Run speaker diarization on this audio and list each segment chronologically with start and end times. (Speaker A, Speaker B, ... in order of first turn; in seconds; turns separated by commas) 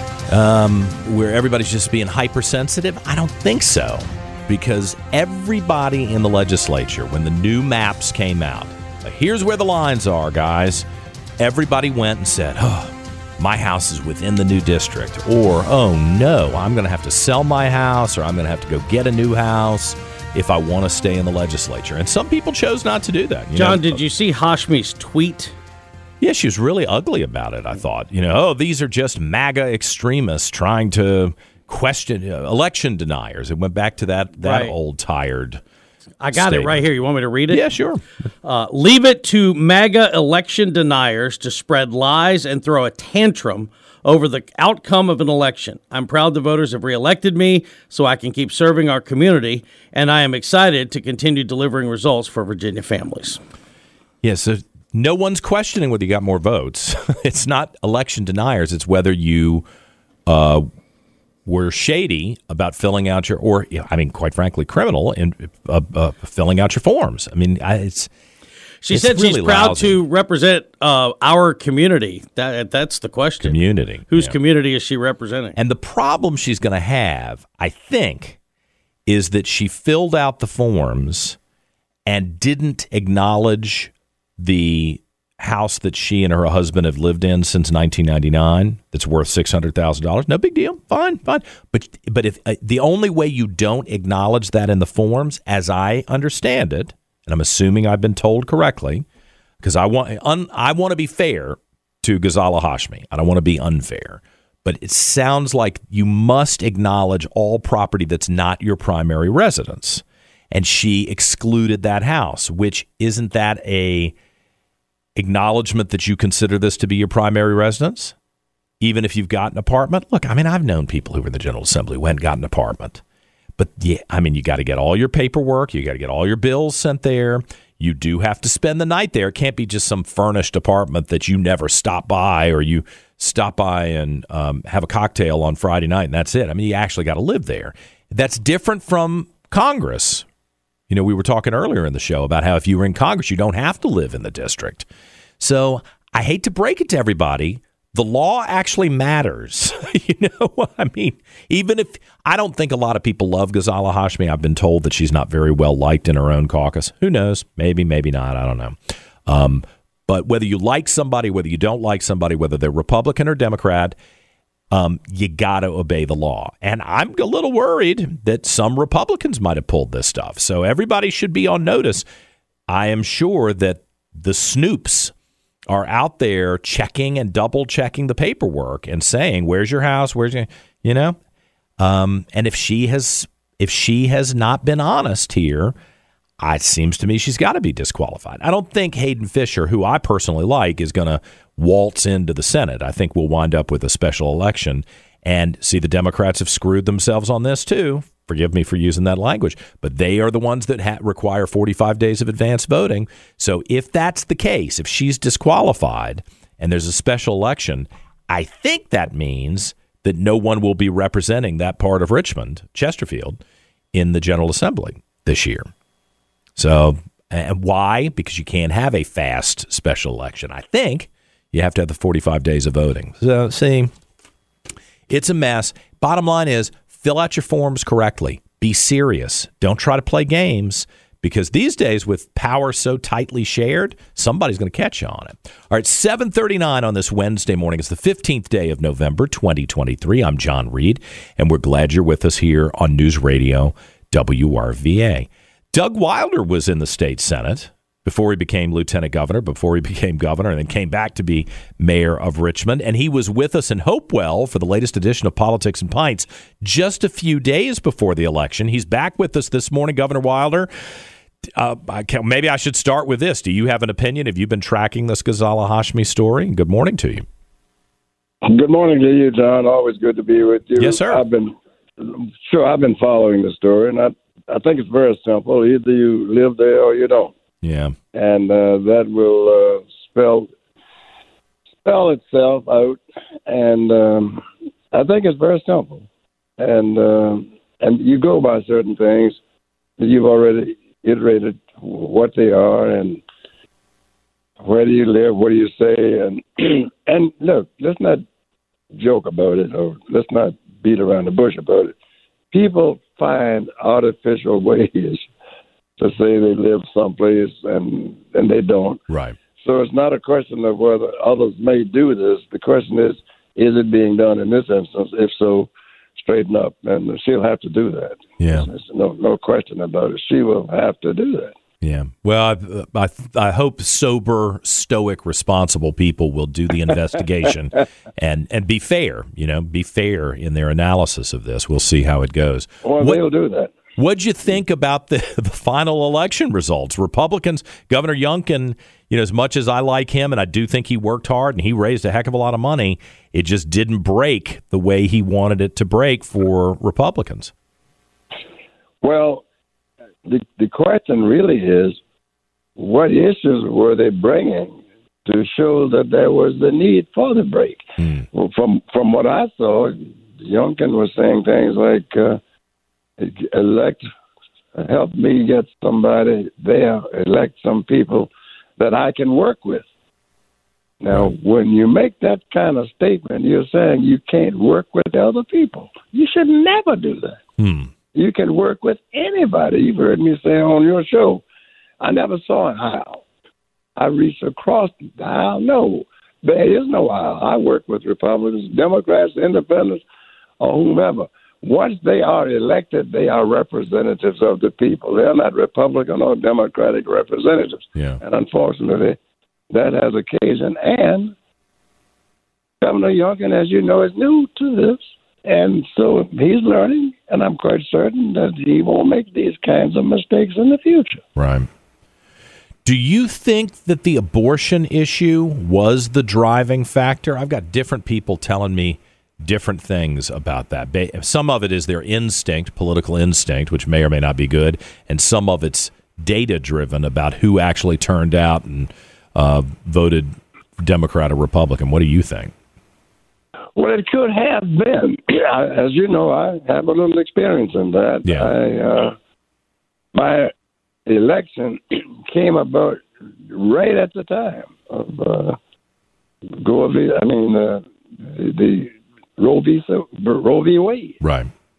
Speaker A: 0.3-10.8, Speaker A: 11.4-24.0, Speaker B: 23.5-25.5, Speaker A: 26.2-35.6, Speaker B: 34.4-34.7, Speaker B: 36.2-37.7, Speaker A: 36.3-36.9, Speaker A: 37.5-38.0, Speaker B: 38.4-53.4, Speaker A: 54.2-59.6, Speaker A: 60.3-60.6, Speaker A: 61.5-68.1, Speaker B: 68.8-75.5, Speaker A: 68.9-70.0, Speaker A: 73.4-74.3, Speaker A: 75.5-78.4, Speaker A: 79.1-81.4, Speaker A: 82.1-99.0, Speaker A: 99.6-114.1, Speaker A: 115.2-118.1, Speaker A: 118.8-123.0, Speaker A: 123.6-140.2, Speaker A: 140.9-144.9, Speaker A: 145.4-163.9, Speaker A: 164.7-172.0, Speaker A: 172.7-175.1, Speaker A: 175.7-181.2, Speaker A: 181.8-185.7, Speaker A: 186.4-213.4, Speaker A: 213.9-215.6, Speaker A: 216.6-223.9, Speaker A: 225.1-260.7, Speaker A: 261.6-267.2, Speaker C: 268.4-277.3, Speaker A: 270.8-271.2, Speaker A: 277.6-277.9, Speaker C: 278.1-280.5, Speaker C: 281.8-286.1, Speaker C: 286.6-289.4, Speaker C: 290.0-293.2, Speaker C: 294.6-298.2, Speaker C: 298.9-301.9, Speaker C: 302.5-305.2, Speaker C: 306.0-309.0, Speaker A: 309.1-309.4, Speaker C: 309.6-321.5, Speaker A: 318.4-318.7, Speaker A: 321.8-333.2, Speaker C: 332.8-333.7, Speaker A: 334.0-347.5, Speaker C: 349.0-349.4, Speaker C: 350.2-352.0, Speaker C: 352.8-362.4, Speaker C: 363.2-364.0, Speaker C: 364.7-369.9, Speaker C: 371.0-377.4, Speaker A: 377.6-377.9, Speaker C: 378.1-381.4, Speaker C: 382.0-383.2, Speaker C: 384.0-390.0, Speaker C: 390.6-399.2, Speaker A: 397.9-398.2, Speaker C: 399.7-401.3, Speaker C: 402.8-411.2, Speaker A: 411.4-411.7, Speaker A: 412.8-432.5, Speaker C: 433.8-439.1, Speaker A: 438.2-438.5, Speaker C: 440.1-440.5, Speaker C: 441.1-445.6, Speaker C: 446.6-451.2, Speaker A: 451.2-451.5